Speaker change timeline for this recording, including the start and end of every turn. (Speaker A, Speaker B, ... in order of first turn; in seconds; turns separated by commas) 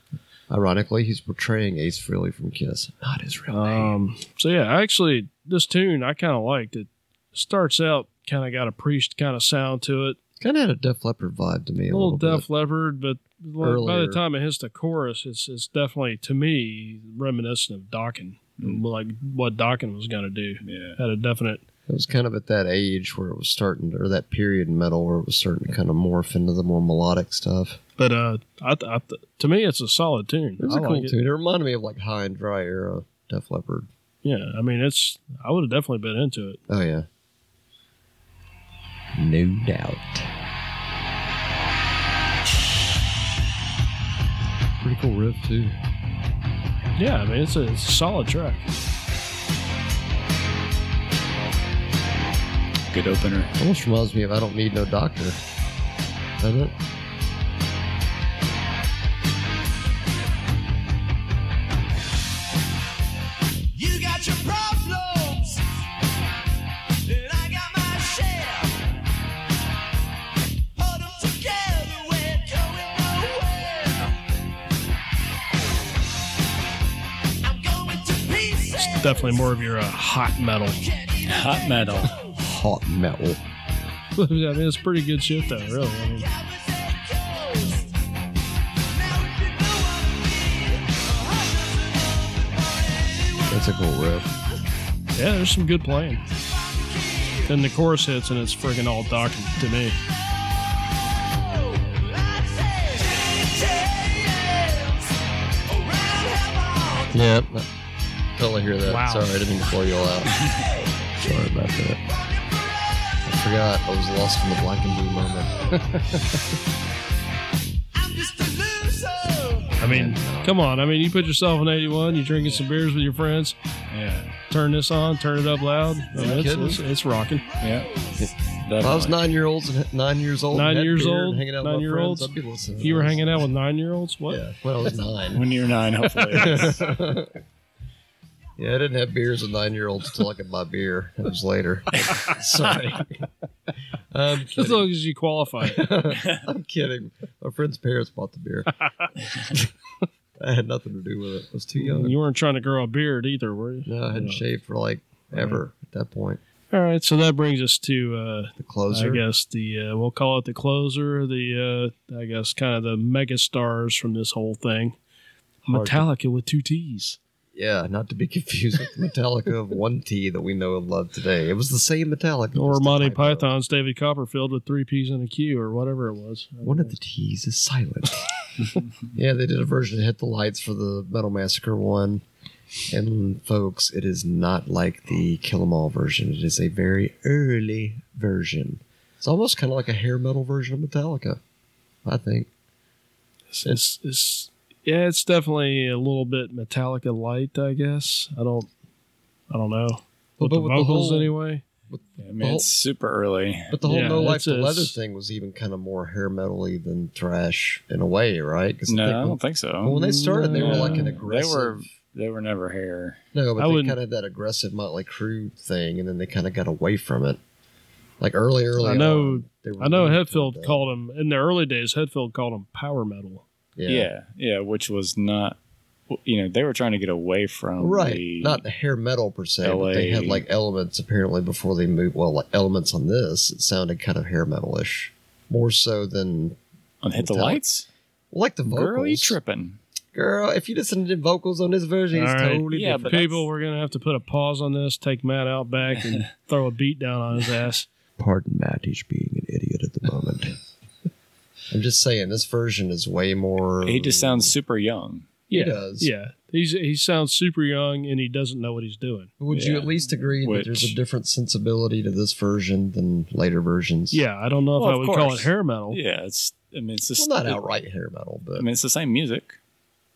Speaker A: 0.5-4.0, Speaker B: 3.5-10.2, Speaker A: 10.4-12.4, Speaker B: 11.9-21.6, Speaker A: 13.6-14.2, Speaker C: 20.6-21.0, Speaker A: 21.9-27.8, Speaker B: 28.0-31.1, Speaker A: 30.6-33.9, Speaker B: 34.2-36.6, Speaker A: 36.7-37.1, Speaker A: 39.1-40.3, Speaker A: 44.8-45.8, Speaker B: 47.0-48.7, Speaker C: 52.9-53.5, Speaker A: 53.6-55.4, Speaker A: 56.4-56.8, Speaker D: 63.7-65.8, Speaker D: 67.0-68.9, Speaker D: 70.8-74.2, Speaker D: 77.4-79.7, Speaker B: 78.8-80.8, Speaker D: 80.8-82.2, Speaker C: 81.2-82.1, Speaker A: 82.4-83.4, Speaker B: 84.2-86.3, Speaker D: 86.2-87.9, Speaker D: 88.8-93.6, Speaker A: 93.5-94.3, Speaker B: 95.2-96.2, Speaker D: 96.5-97.5, Speaker B: 97.5-100.0, Speaker D: 101.2-107.2, Speaker A: 107.1-107.7, Speaker A: 108.4-110.3, Speaker B: 108.8-109.3, Speaker A: 111.2-112.0, Speaker D: 112.1-113.2, Speaker A: 113.2-115.7, Speaker D: 117.9-119.8, Speaker B: 119.8-123.6, Speaker A: 119.8-120.6, Speaker C: 123.9-124.3, Speaker B: 124.5-127.5, Speaker A: 126.1-126.8, Speaker C: 127.6-127.9, Speaker D: 127.6-128.3, Speaker A: 128.2-133.3, Speaker C: 128.6-129.2, Speaker B: 130.5-134.4, Speaker A: 134.3-135.5, Speaker C: 135.3-136.9, Speaker A: 136.3-137.3, Speaker A: 138.6-143.3, Speaker A: 144.1-144.9, Speaker B: 144.6-145.8, Speaker A: 145.6-148.8, Speaker A: 149.3-149.7, Speaker A: 150.4-152.2, Speaker B: 151.8-154.4, Speaker A: 153.9-156.4, Speaker B: 155.3-155.6, Speaker B: 156.7-165.0, Speaker A: 158.6-159.2, Speaker A: 165.6-166.1, Speaker B: 165.7-167.2, Speaker A: 167.5-173.5, Speaker B: 172.5-176.9, Speaker A: 176.6-178.3, Speaker A: 179.1-182.2, Speaker A: 182.9-191.4, Speaker A: 192.1-192.5, Speaker B: 193.5-198.7, Speaker B: 199.5-201.7, Speaker A: 200.4-201.3, Speaker A: 201.9-202.7, Speaker C: 202.2-204.1, Speaker A: 203.7-211.9, Speaker B: 203.8-205.0, Speaker C: 208.9-210.0, Speaker B: 209.9-211.1, Speaker C: 210.6-213.2, Speaker A: 213.3-217.4, Speaker B: 213.6-214.0, Speaker A: 218.2-220.8, Speaker B: 218.8-223.5, Speaker A: 223.8-224.1, Speaker C: 223.9-225.6, Speaker C: 226.1-228.6, Speaker A: 227.8-236.6, Speaker C: 229.6-230.4, Speaker C: 237.0-237.9, Speaker A: 237.2-237.6, Speaker A: 238.3-239.4, Speaker C: 238.7-239.8, Speaker A: 240.1-243.3, Speaker B: 242.1-247.9, Speaker C: 242.7-243.4, Speaker A: 248.2-250.6, Speaker A: 251.7-254.5, Speaker C: 253.8-255.3, Speaker B: 255.5-259.3, Speaker A: 255.5-256.1, Speaker A: 259.4-264.2, Speaker C: 259.5-259.9, Speaker C: 260.4-261.0, Speaker B: 264.1-266.0, Speaker C: 264.8-267.6, Speaker A: 267.2-268.7, Speaker C: 268.6-269.6